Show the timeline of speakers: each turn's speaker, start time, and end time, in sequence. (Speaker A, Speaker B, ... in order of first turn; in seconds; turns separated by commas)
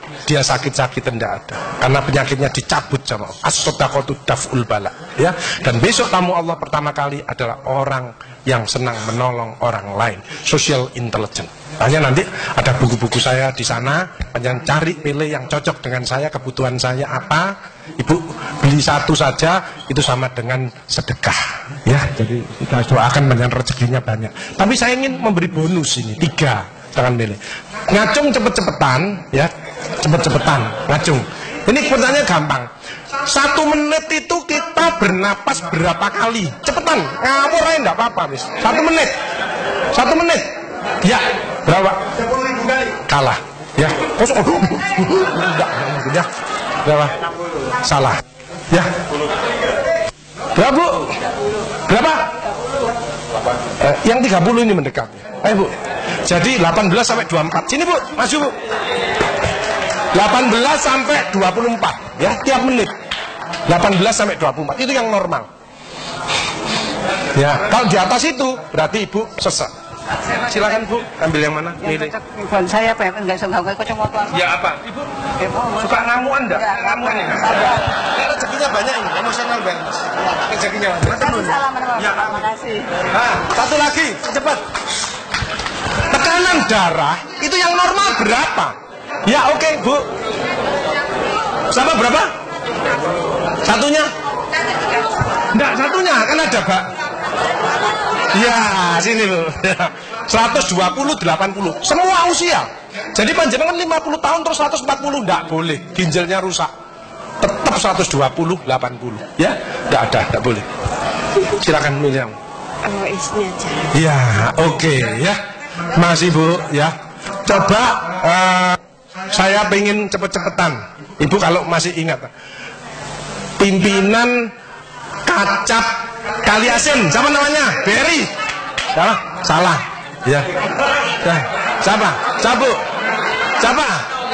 Speaker A: 0.3-27.4, Speaker A: 27.9-32.7, Speaker A: 33.3-39.1, Speaker A: 39.9-40.5, Speaker A: 41.0-42.2, Speaker A: 42.9-46.3, Speaker A: 46.8-47.1, Speaker A: 47.8-49.0, Speaker A: 50.6-51.2, Speaker A: 51.9-52.3, Speaker A: 53.8-58.6, Speaker A: 60.1-62.9, Speaker A: 63.7-65.5, Speaker A: 67.3-69.7, Speaker A: 70.4-72.1, Speaker B: 71.8-74.4, Speaker A: 74.3-74.9, Speaker B: 75.4-77.7, Speaker A: 75.8-82.4, Speaker B: 81.1-82.9, Speaker A: 83.1-84.6, Speaker A: 86.1-88.8, Speaker A: 89.3-90.1, Speaker A: 91.7-92.3, Speaker A: 93.7-94.1, Speaker A: 95.5-96.9, Speaker A: 98.3-106.7, Speaker A: 107.4-110.7, Speaker A: 111.4-112.3, Speaker B: 112.8-113.9, Speaker A: 113.9-115.4, Speaker A: 115.9-118.8, Speaker A: 119.3-122.3, Speaker A: 123.6-124.5, Speaker A: 125.3-128.3, Speaker A: 128.9-130.5, Speaker A: 131.0-132.8, Speaker A: 133.6-134.1